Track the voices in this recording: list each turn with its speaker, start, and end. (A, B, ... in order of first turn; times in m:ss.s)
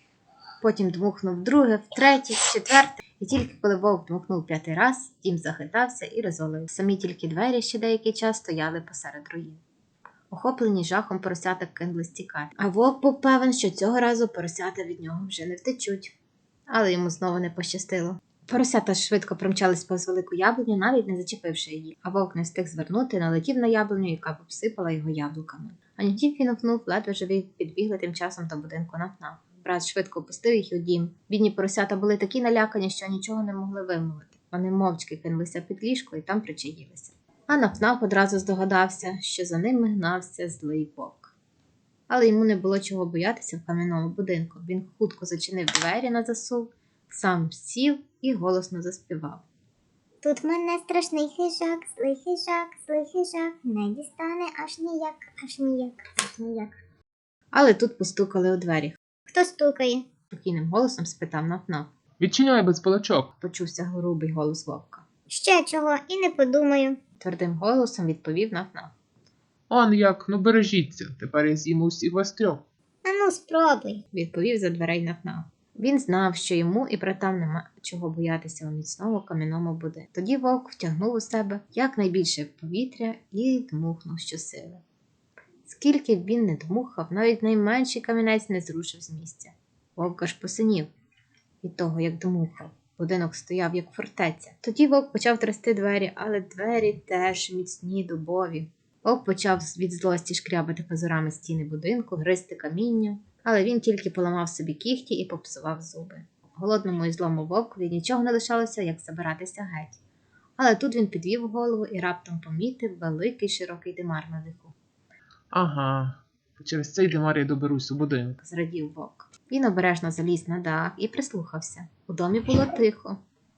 0:00.6-0:09.6 A
0:10.3-0:16.2 A
0:16.7-0:41.3 A
0:42.1-0:49.4 A
0:50.2-0:56.8 B
0:57.5-0:59.0 A
0:59.3-1:00.0 B
1:00.3-1:01.9 A
1:02.2-1:03.3 C
1:03.4-1:05.0 A
1:05.3-1:07.0 B
1:07.2-1:08.9 A
1:09.7-1:12.6 C
1:13.0-1:14.0 B
1:14.1-1:24.8 A
1:25.6-1:30.9 A
1:31.6-1:50.0 A
1:50.6-1:54.7 A
1:55.5-1:58.4 C
1:58.4-2:03.2 A